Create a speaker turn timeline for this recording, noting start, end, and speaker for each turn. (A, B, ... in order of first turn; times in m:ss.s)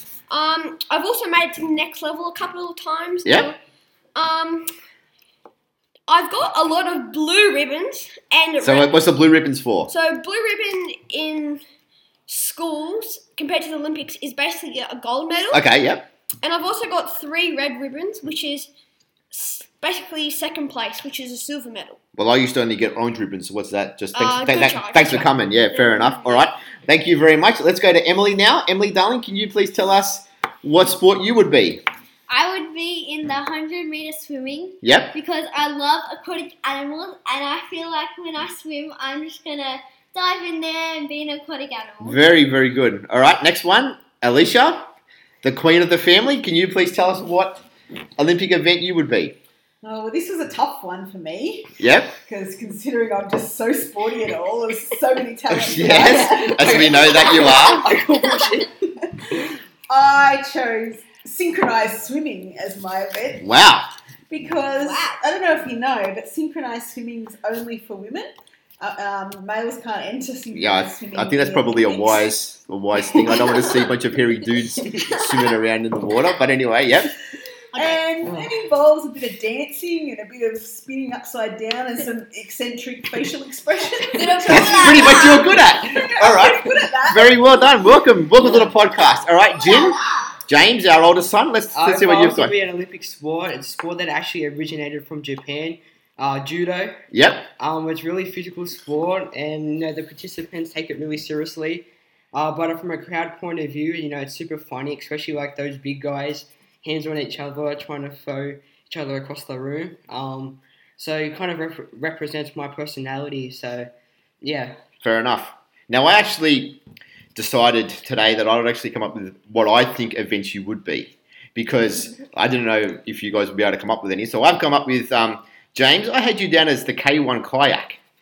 0:00.3-0:03.6 A
0:03.2-0:03.5 B
0:04.2-0:04.7 A
0:06.1-0:09.0 A
0:08.6-0:09.9 B
0:09.9-0:11.6 A
0:12.3-0:15.6 A
0:15.5-0:16.1 B
0:16.4-0:18.7 A
0:19.3-0:22.0 A
0:22.2-0:31.8 B
0:24.2-0:26.4 A
0:32.3-0:42.2 C
0:34.8-0:35.2 B
0:42.0-0:47.6 B
0:48.2-0:49.4 B
0:49.8-0:57.8 D
0:51.8-0:52.2 B
0:55.5-0:57.9 B
0:57.2-0:58.7 E
0:58.7-1:03.4 D
1:03.4-1:03.9 B
1:04.3-1:08.3 D
1:08.8-1:12.3 D
1:10.5-1:17.2 B
1:13.1-1:13.9 D
1:17.7-1:27.9 D
1:17.8-1:18.0 A
1:18.2-1:18.5 E
1:24.2-1:25.5 C
1:24.4-1:32.5 B
1:24.6-1:25.4 A
1:28.4-1:28.8 E
1:31.7-1:37.0 E
1:37.1-1:37.5 B
1:37.6-1:53.9 E
1:54.4-1:54.8 E
1:55.0-1:56.8 B
1:57.3-2:08.0 B